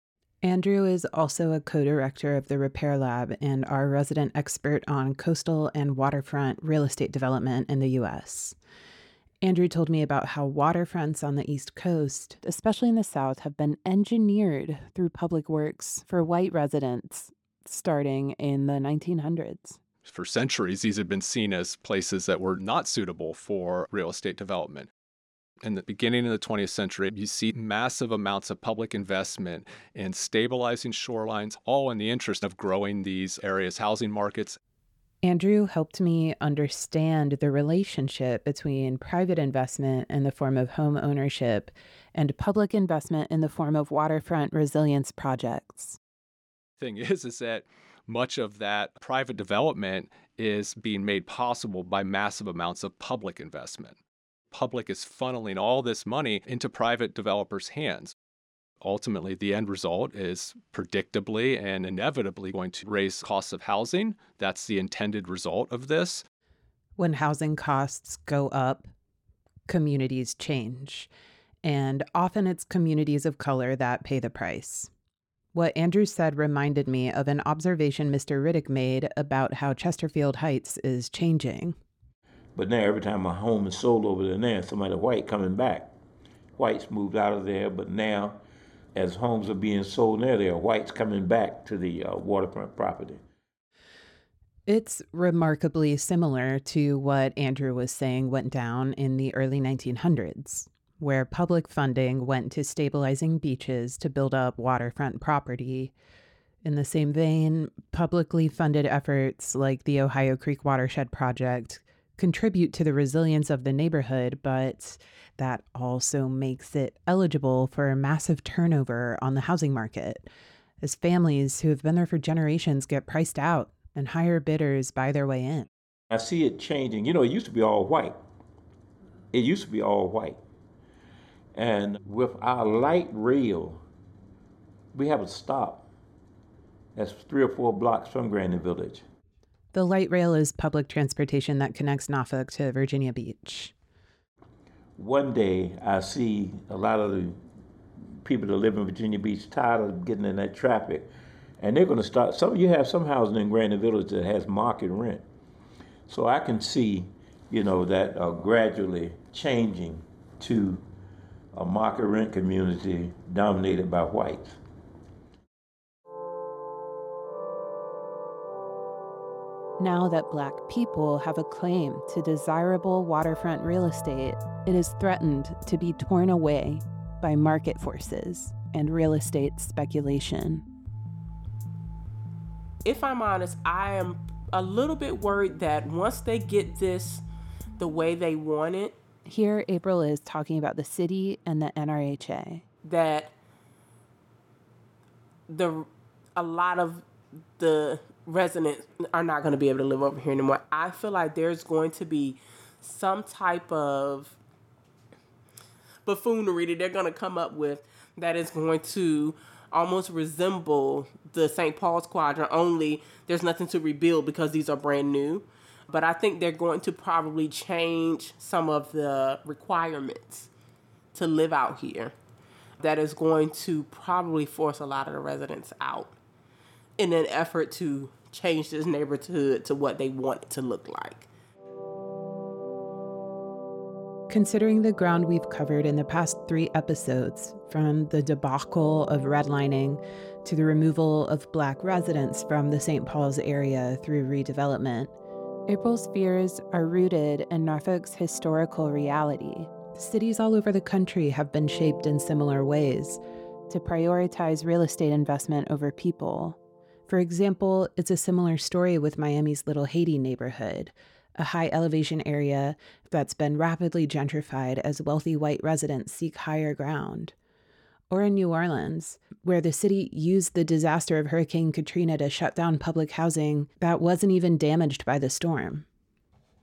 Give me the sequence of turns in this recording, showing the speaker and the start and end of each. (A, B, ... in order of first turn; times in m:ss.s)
0:00.4-0:08.6 A
0:09.4-0:19.8 A
0:20.0-0:24.9 B
0:25.6-0:34.6 B
0:35.2-0:46.0 A
0:46.8-0:54.0 B
0:54.5-0:58.1 B
0:58.8-1:06.2 B
1:07.0-1:08.9 A
1:09.7-1:11.1 A
1:11.6-1:14.9 A
1:15.5-1:21.8 A
1:22.6-1:25.9 C
1:26.6-1:28.4 C
1:28.9-1:33.2 C
1:34.7-1:45.9 A
1:46.6-2:00.3 A
2:00.8-2:05.7 A
2:06.1-2:08.2 C
2:09.3-2:10.4 C
2:11.5-2:13.8 C
2:14.9-2:15.9 C
2:16.9-2:19.0 C
2:19.7-2:23.7 A
2:25.0-2:27.4 C
2:28.2-2:35.2 C
2:36.1-2:40.8 C
2:41.5-2:44.6 C
2:49.8-3:00.6 A
3:02.8-3:07.2 D
3:07.8-3:08.9 D
3:09.2-3:12.6 A
3:12.8-3:13.3 D
3:15.5-3:17.0 D
3:17.6-3:24.4 D
3:26.0-3:40.5 D
3:41.1-3:42.1 D
3:42.8-3:46.1 D
3:47.0-3:51.3 D
3:54.3-4:05.1 A
4:05.7-4:27.3 A
4:28.1-4:35.8 A